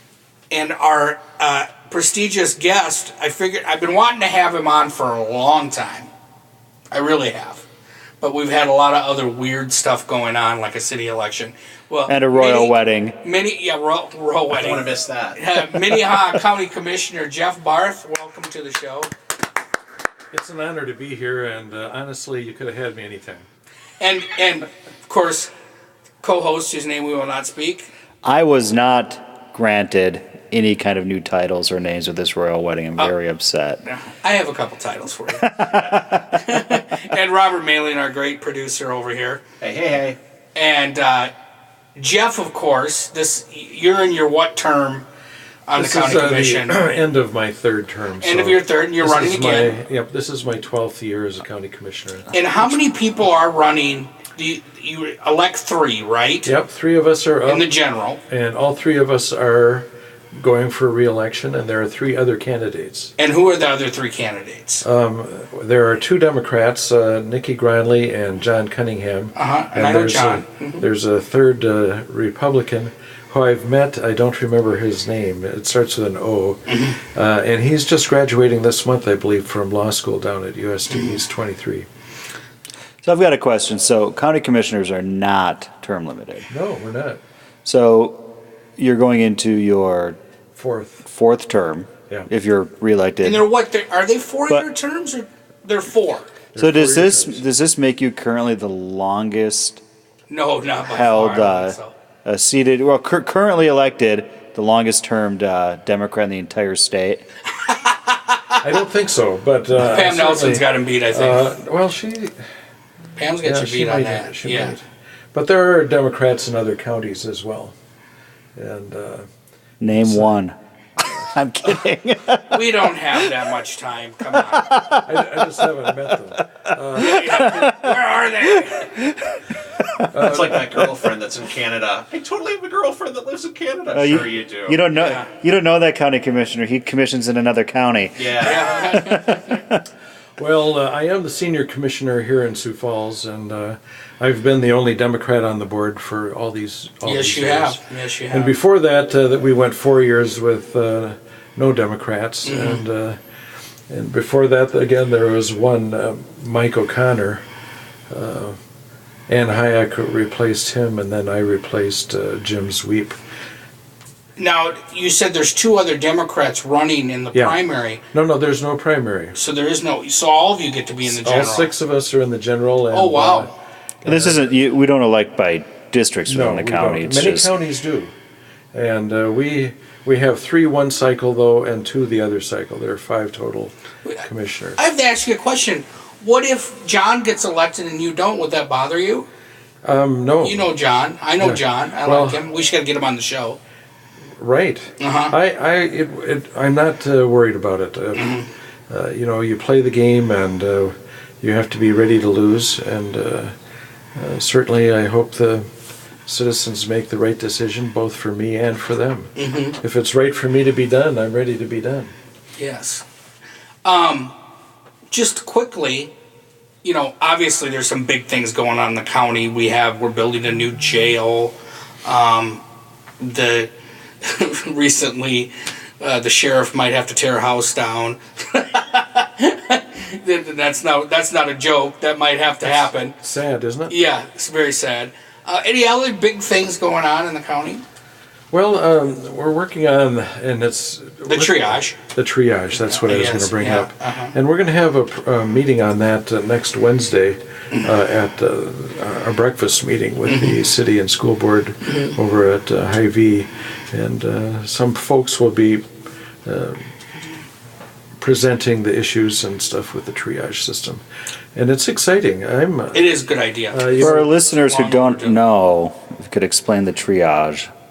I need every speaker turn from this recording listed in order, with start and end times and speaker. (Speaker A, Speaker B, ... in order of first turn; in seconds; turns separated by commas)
Speaker A: 0.5-6.1, Speaker A: 6.9-7.7, Speaker A: 8.2-19.1, Speaker B: 12.1-13.2, Speaker C: 14.7-15.3, Speaker D: 20.3-23.4, Speaker A: 24.0-25.5, Speaker A: 26.2-27.9, Speaker B: 28.2-33.9, Speaker A: 33.9-39.4, Speaker C: 39.6-40.1, Speaker A: 40.5-41.3, Speaker A: 42.0-45.0, Speaker A: 45.7-47.0, Speaker D: 45.7-52.4, Speaker A: 48.2-49.8, Speaker A: 52.3-56.5, Speaker D: 56.4-57.7, Speaker A: 57.5-58.2, Speaker D: 58.3-63.1, Speaker A: 63.2-64.8, Speaker D: 64.8-81.8, Speaker A: 69.3-70.8, Speaker A: 76.7-77.0, Speaker A: 80.9-81.2, Speaker B: 83.0-86.5, Speaker D: 86.5-87.2, Speaker B: 87.7-88.2, Speaker B: 88.8-90.2, Speaker D: 90.6-91.1, Speaker B: 91.1-93.4, Speaker A: 93.2-96.3, Speaker D: 96.5-97.4, Speaker B: 96.6-99.8, Speaker A: 100.3-101.9, Speaker B: 100.8-107.2, Speaker A: 107.6-108.6, Speaker D: 108.6-112.3, Speaker A: 109.8-111.6, Speaker A: 113.2-114.8, Speaker D: 113.4-117.7, Speaker D: 118.6-119.3, Speaker B: 119.8-123.3, Speaker D: 119.9-120.4, Speaker D: 121.0-121.3, Speaker A: 122.5-124.7, Speaker B: 124.6-125.7, Speaker D: 125.0-127.2, Speaker A: 126.9-129.0, Speaker B: 127.1-127.6, Speaker D: 130.1-130.9, Speaker C: 130.3-134.8, Speaker B: 133.9-138.4, Speaker A: 134.9-135.3, Speaker C: 138.2-138.6, Speaker A: 138.3-139.6, Speaker B: 139.0-139.6, Speaker D: 140.4-153.2, Speaker A: 147.0-148.5, Speaker A: 152.4-152.8, Speaker D: 153.9-157.4, Speaker D: 158.1-158.5, Speaker D: 159.3-163.2, Speaker A: 164.4-168.0, Speaker D: 167.3-169.4, Speaker A: 169.3-171.7, Speaker D: 171.0-174.6, Speaker A: 172.9-173.5, Speaker B: 174.0-177.5, Speaker D: 176.2-178.1, Speaker D: 178.7-184.8, Speaker A: 184.8-189.2, Speaker D: 189.8-190.7, Speaker A: 190.4-193.6, Speaker D: 191.4-192.4, Speaker D: 194.4-203.5, Speaker A: 195.0-195.3, Speaker A: 198.1-198.5, Speaker D: 204.2-205.7, Speaker D: 206.2-212.1, Speaker A: 209.3-209.8, Speaker A: 212.6-213.0, Speaker A: 213.8-214.3, Speaker A: 215.1-216.1, Speaker A: 216.8-222.6, Speaker A: 223.2-223.7, Speaker A: 224.2-233.1, Speaker D: 232.6-233.9, Speaker A: 233.9-237.8, Speaker D: 238.5-255.8, Speaker A: 241.3-241.9, Speaker A: 242.8-244.3, Speaker A: 250.3-250.6, Speaker D: 256.4-256.9, Speaker D: 258.2-261.0, Speaker D: 261.6-263.2, Speaker A: 262.9-265.4, Speaker D: 263.7-264.3, Speaker B: 264.0-267.7